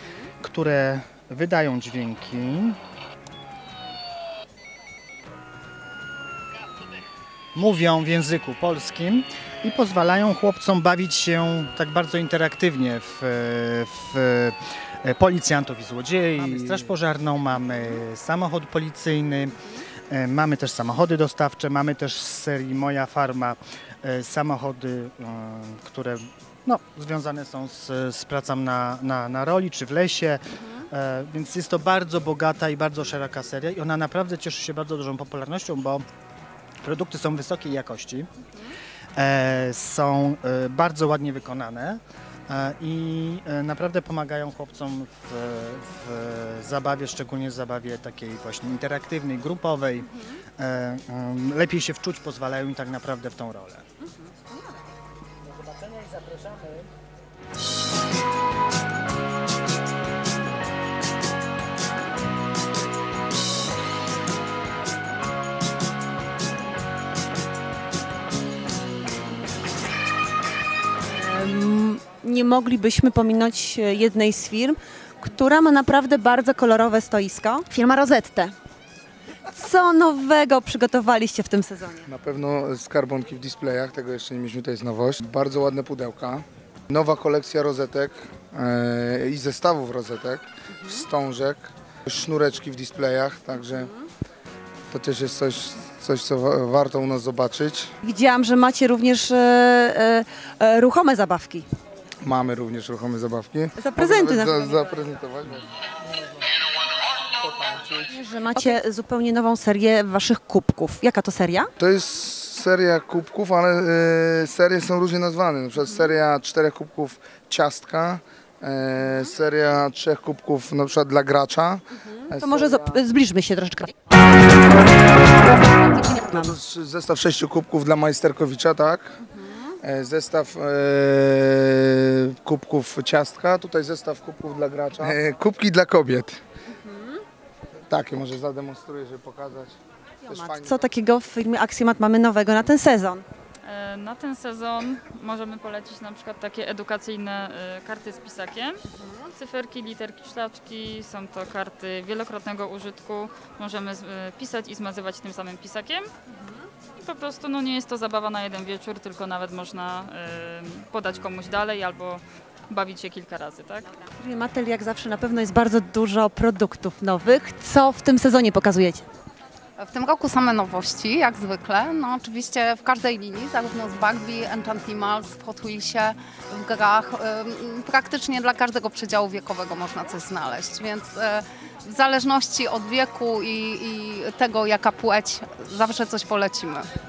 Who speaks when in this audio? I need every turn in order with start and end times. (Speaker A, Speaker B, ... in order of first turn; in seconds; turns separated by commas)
Speaker A: 0.4-2.8, Speaker A: 7.5-19.6, Speaker A: 20.1-36.0, Speaker A: 36.8-38.3, Speaker A: 39.2-53.9, Speaker A: 55.5-56.9, Speaker B: 71.2-78.5, Speaker B: 79.5-82.1, Speaker C: 82.1-93.9, Speaker C: 94.9-97.9, Speaker B: 98.0-101.7, Speaker C: 102.2-105.7, Speaker B: 103.8-105.0, Speaker C: 107.7-108.0, Speaker B: 108.1-111.7, Speaker C: 111.8-123.0, Speaker B: 122.2-123.9, Speaker B: 125.6-126.5, Speaker C: 126.3-129.1, Speaker C: 129.8-136.4, Speaker C: 137.9-139.8, Speaker B: 140.2-143.2, Speaker C: 140.3-140.8, Speaker D: 143.7-148.8, Speaker D: 149.4-156.1, Speaker D: 157.0-163.9, Speaker B: 164.2-169.0, Speaker E: 169.8-186.9